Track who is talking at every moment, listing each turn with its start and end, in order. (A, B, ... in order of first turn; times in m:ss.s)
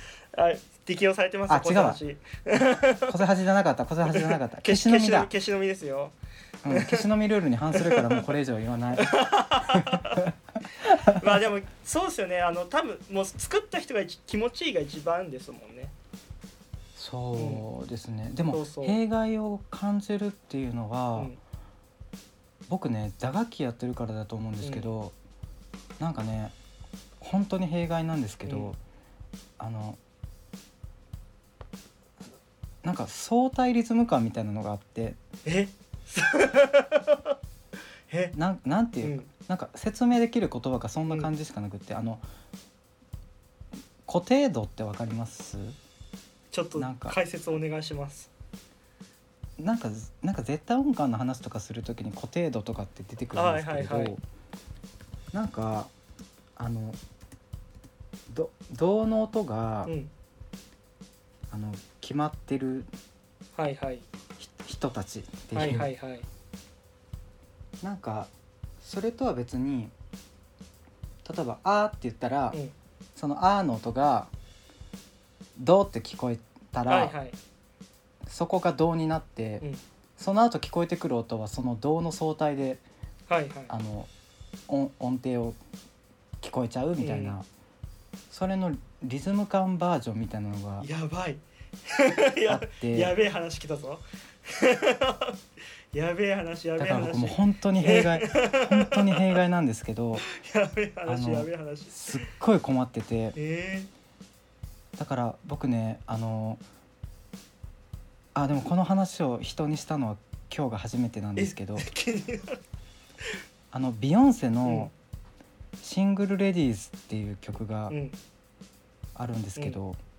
0:00.3-0:03.2 A
0:01.5-0:02.0 B
0:03.1-0:05.3 B
0:04.1-0:06.2 A
0:06.6-0:09.1 B
0:06.7-0:07.1 A
0:07.7-0:08.3 A
0:09.0-0:10.3 A
0:09.7-0:10.3 B
0:10.8-0:15.9 A
0:10.9-0:11.2 B
0:17.0-0:21.3 B
0:17.4-0:17.6 A
0:18.5-0:19.0 A
0:22.7-0:25.1 B
0:24.6-0:24.9 A
0:26.0-0:26.6 B
0:27.2-0:28.8 B
0:28.4-0:28.7 A
0:29.6-0:30.0 B
0:32.8-0:35.2 B
0:35.4-0:37.3 A
0:38.1-0:38.3 A
0:38.3-0:42.2 B
0:39.0-0:39.3 A
0:44.0-0:45.8 B
0:46.5-0:48.3 A
0:46.7-0:47.2 B
0:49.6-0:54.2 B
0:53.3-0:54.2 A
0:55.3-0:55.9 B
0:56.6-0:57.0 B
0:58.3-0:59.9 B
0:59.8-1:00.1 A
1:01.5-1:02.9 B
1:03.6-1:04.0 A
1:04.4-1:05.9 B
1:05.5-1:06.3 A
1:07.8-1:09.9 B
1:11.2-1:12.6 B
1:13.2-1:14.3 B
1:15.6-1:17.1 B
1:16.9-1:17.4 A
1:18.3-1:22.8 B
1:23.3-1:23.7 A
1:23.7-1:24.1 B
1:24.7-1:25.6 B
1:26.4-1:27.5 B
1:27.0-1:27.4 A
1:28.3-1:30.9 B
1:30.8-1:35.4 A
1:32.5-1:33.1 B
1:35.9-1:39.4 A
1:36.8-1:40.2 B
1:40.2-1:42.2 A
1:41.0-1:43.4 B
1:43.4-1:43.9 A
1:45.0-1:46.6 B
1:48.3-1:51.9 B
1:51.4-1:52.6 A
1:53.7-1:54.9 B
1:54.6-1:54.9 A
1:55.8-1:58.0 B
1:57.9-1:58.2 A
1:59.1-2:00.0 B